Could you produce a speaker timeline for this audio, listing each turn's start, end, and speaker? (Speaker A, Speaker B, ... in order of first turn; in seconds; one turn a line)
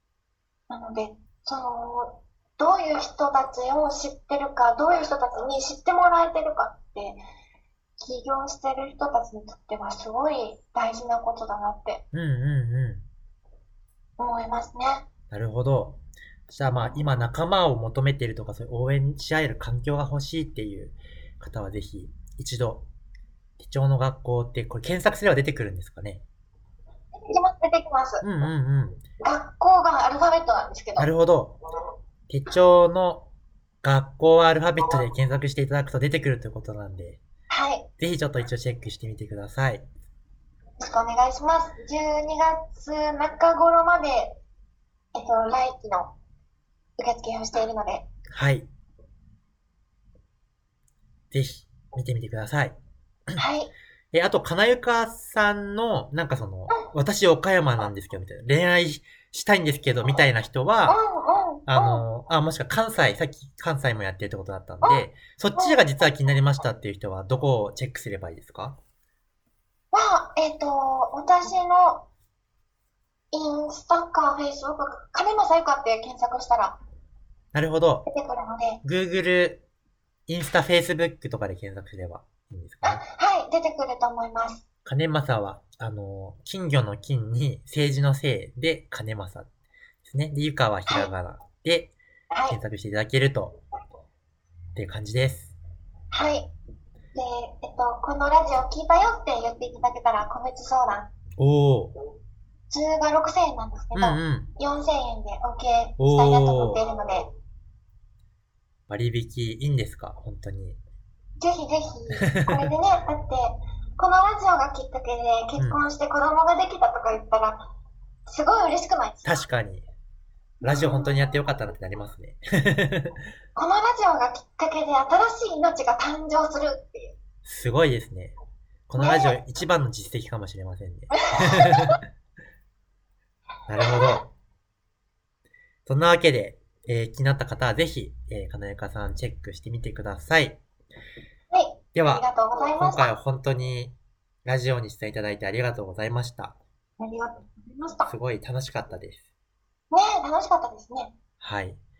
Speaker A: 0.7-7.2
Speaker A: 8.0-12.0
Speaker B: 12.1-13.0
Speaker A: 14.2-15.1
Speaker B: 15.3-22.9
Speaker B: 23.6-26.2
Speaker A: 27.2-28.2
Speaker B: 28.2-29.0
Speaker A: 29.2-31.1
Speaker B: 31.0-31.6
Speaker B: 32.3-33.3
Speaker B: 33.8-37.2
Speaker A: 37.5-37.9
Speaker B: 38.0-39.9
Speaker A: 40.8-44.4
Speaker A: 45.1-46.2
Speaker A: 47.0-48.1
Speaker B: 48.3-48.7
Speaker B: 51.3-52.8
Speaker A: 53.4-53.7
Speaker B: 54.1-61.0
Speaker A: 60.9-62.0
Speaker B: 61.7-68.8
Speaker A: 64.8-65.8
Speaker A: 69.9-72.1
Speaker A: 73.3-76.8
Speaker B: 77.5-78.1
Speaker A: 78.1-78.8
Speaker B: 78.8-79.7
Speaker B: 80.3-83.0
Speaker A: 82.8-84.7
Speaker B: 84.8-89.5
Speaker B: 90.0-92.0
Speaker A: 92.3-92.6
Speaker B: 92.5-93.6
Speaker B: 94.8-95.6
Speaker A: 96.1-96.5
Speaker A: 97.2-101.1
Speaker B: 101.4-101.9
Speaker A: 102.7-107.3
Speaker B: 103.9-104.5
Speaker B: 106.0-106.8
Speaker B: 108.9-110.8
Speaker A: 111.4-117.7
Speaker B: 112.2-112.7
Speaker B: 115.6-115.8
Speaker A: 118.3-119.4
Speaker B: 119.2-119.9
Speaker A: 120.6-121.2
Speaker B: 120.6-123.2
Speaker A: 123.6-127.2
Speaker B: 127.4-128.3
Speaker B: 128.9-132.0
Speaker A: 129.0-129.4
Speaker A: 131.1-131.9
Speaker B: 133.7-134.3
Speaker A: 133.8-134.2
Speaker B: 135.9-140.6
Speaker A: 141.5-143.1
Speaker B: 141.9-146.6
Speaker A: 147.0-148.1
Speaker B: 148.1-149.3
Speaker A: 149.9-151.2
Speaker B: 151.4-151.8